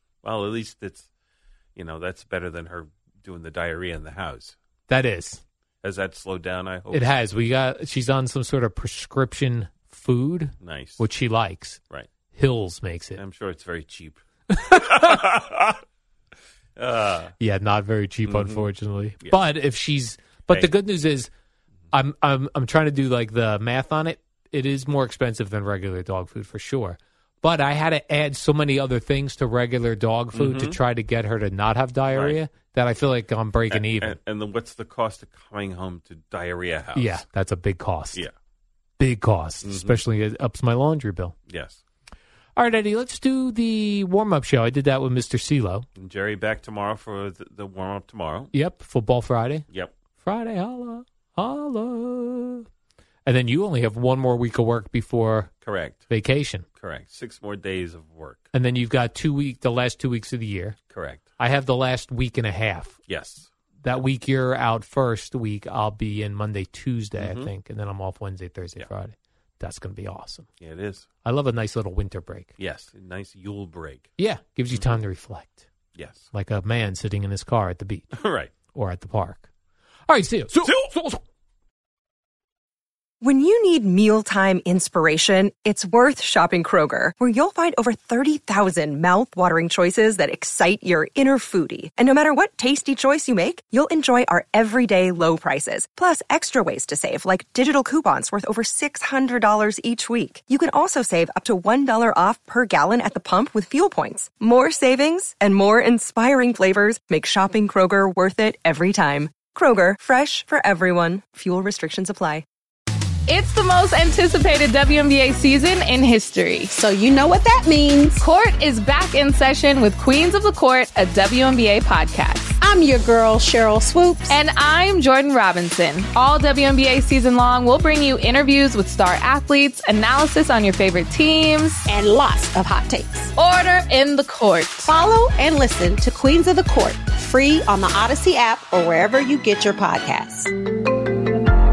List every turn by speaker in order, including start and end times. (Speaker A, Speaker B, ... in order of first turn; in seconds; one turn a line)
Speaker A: 0.2-1.1
Speaker A: 1.7-4.5
Speaker B: 4.9-5.4
Speaker A: 5.8-7.1
Speaker B: 6.9-11.8
Speaker A: 10.6-11.0
Speaker B: 12.3-13.2
Speaker A: 13.2-15.8
Speaker B: 14.5-15.1
Speaker A: 16.8-17.3
Speaker B: 17.4-21.3
Speaker A: 18.3-18.7
Speaker B: 21.9-34.2
Speaker A: 30.3-30.8
Speaker A: 32.1-32.4
Speaker A: 33.7-37.2
Speaker B: 36.9-38.2
Speaker B: 39.0-41.3
Speaker A: 39.6-40.0
Speaker A: 41.5-41.8
Speaker B: 42.5-45.8
Speaker A: 46.0-48.5
Speaker B: 48.5-49.6
Speaker B: 50.2-52.6
Speaker B: 53.2-55.5
Speaker A: 55.6-56.1
Speaker B: 56.1-56.6
Speaker A: 56.8-58.5
Speaker B: 58.5-60.8
Speaker A: 60.9-61.2
Speaker B: 61.4-63.0
Speaker A: 63.1-63.5
Speaker B: 63.8-70.5
Speaker A: 67.2-67.5
Speaker A: 70.6-71.1
Speaker B: 71.2-72.5
Speaker A: 72.6-74.1
Speaker B: 74.2-75.6
Speaker A: 75.9-76.2
Speaker B: 76.3-78.1
Speaker A: 78.1-78.5
Speaker B: 78.7-79.5
Speaker B: 80.1-80.7
Speaker A: 80.6-81.0
Speaker C: 83.2-112.4
Speaker D: 113.3-116.7
Speaker E: 116.7-118.2
Speaker D: 118.2-122.5
Speaker E: 122.6-124.4
Speaker D: 124.3-131.8
Speaker E: 131.9-133.3
Speaker D: 133.3-134.9
Speaker E: 134.8-140.5